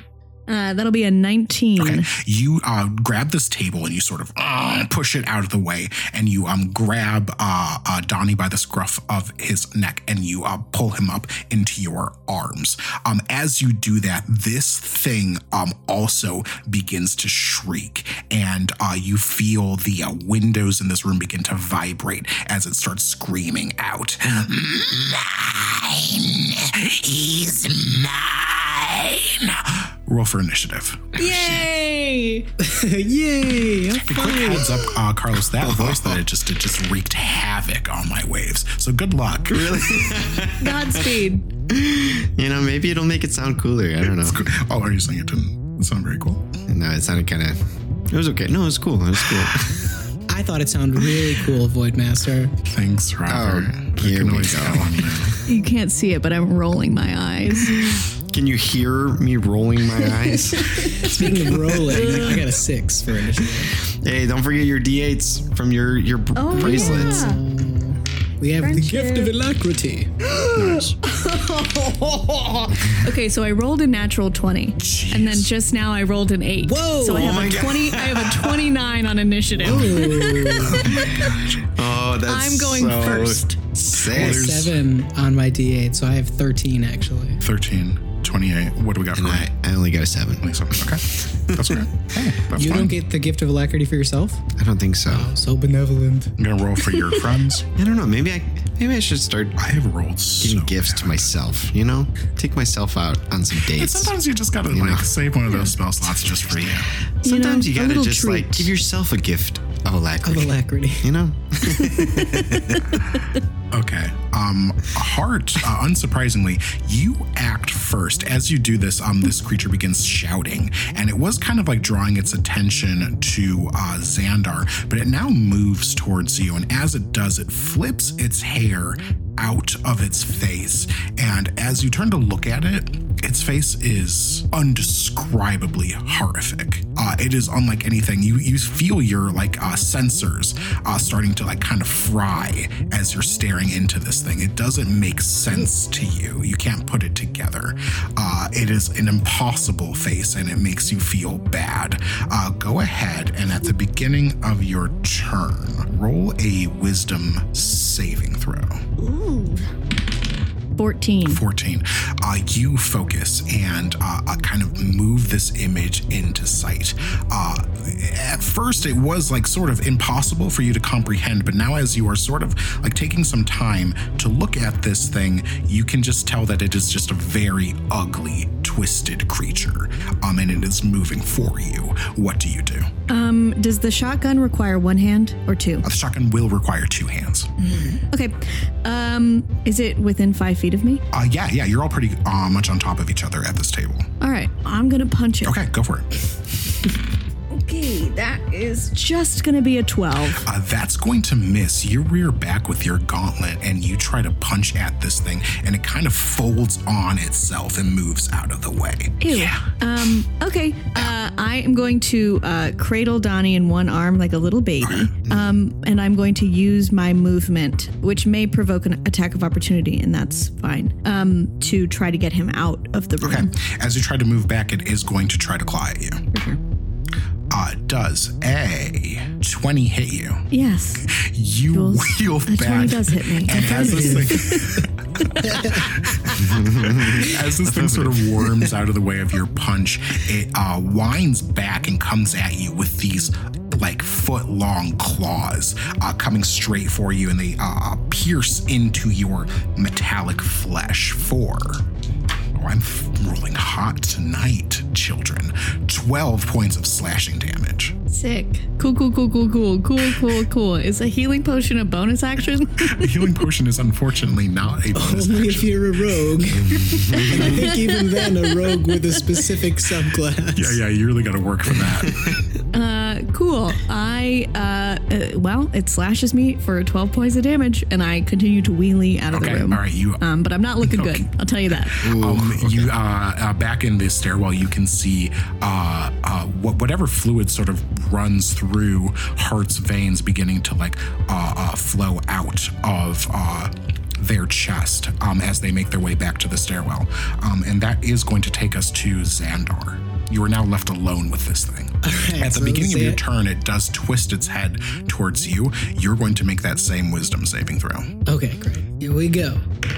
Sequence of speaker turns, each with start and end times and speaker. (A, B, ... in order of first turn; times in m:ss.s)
0:00.5-0:02.1 A
0:01.8-0:31.5 B
0:31.2-0:32.5 A
0:32.6-0:34.9 C
0:34.0-0:40.2 B
0:35.5-0:36.2 D
0:39.5-0:44.5 D
0:40.6-0:41.5 A
0:44.2-0:46.5 B
0:46.7-0:47.6 D
0:48.1-0:49.9 D
0:50.3-0:52.5 C
0:52.7-0:55.4 B
0:53.3-0:55.3 D
0:55.5-0:57.8 A
0:57.6-1:02.2 D
1:00.0-1:02.4 A
1:01.0-1:03.7 C
1:03.4-1:07.4 D
1:06.4-1:07.4 A
1:06.6-1:10.1 C
1:08.6-1:09.3 A
1:10.3-1:21.4 A
1:10.5-1:11.0 B
1:12.8-1:13.1 D
1:14.8-1:15.5 B
1:16.6-1:17.6 C
1:17.2-1:18.7 D
1:19.6-1:20.9 C
1:19.6-1:24.7 D
1:20.6-1:21.7 B
1:22.2-1:23.6 A
1:24.1-1:24.8 B
1:24.1-1:27.4 C
1:27.4-1:29.5 B
1:29.1-1:31.9 D
1:30.4-1:33.0 B
1:32.5-1:34.4 C
1:34.6-1:35.3 D
1:35.1-1:36.4 C
1:36.4-1:37.7 B
1:37.8-1:39.6 D
1:39.6-1:41.3 B
1:40.4-1:44.2 D
1:43.6-1:46.9 B
1:44.7-1:45.1 D
1:46.1-1:53.0 D
1:47.2-1:48.7 A
1:50.2-1:51.1 C
1:51.9-1:52.9 A
1:53.7-2:38.9 B
2:39.0-2:39.7 A
2:40.8-2:41.4 A
2:41.3-3:02.9 B
3:03.1-3:05.8 A
3:05.8-3:07.5 B
3:07.7-3:11.0 A
3:11.1-3:14.1 B
3:14.2-3:15.6 A
3:15.4-3:16.1 B
3:17.5-3:20.4 A
3:20.4-3:29.8 B
3:29.2-3:43.5 A
3:34.8-3:35.1 B
3:35.3-3:35.6 D
3:43.2-3:46.2 B
3:46.3-3:46.6 A
3:47.5-3:50.5 B
3:50.5-3:51.0 A
3:51.0-4:11.8 B
3:51.7-3:56.4 A
3:53.6-3:54.2 C
3:55.4-3:55.9 C
3:56.3-3:58.4 D
4:12.5-4:18.0 B
4:18.1-4:23.4 A
4:22.8-4:25.8 B
4:25.0-4:30.8 C
4:26.5-4:27.6 D
4:27.2-4:29.4 A
4:30.6-4:32.4 B
4:31.7-4:32.5 D
4:32.7-4:42.0 A
4:39.3-4:40.2 B
4:40.8-4:41.3 B
4:42.0-4:42.9 D
4:42.0-5:08.1 B
5:02.0-5:03.2 C
5:08.3-5:09.6 C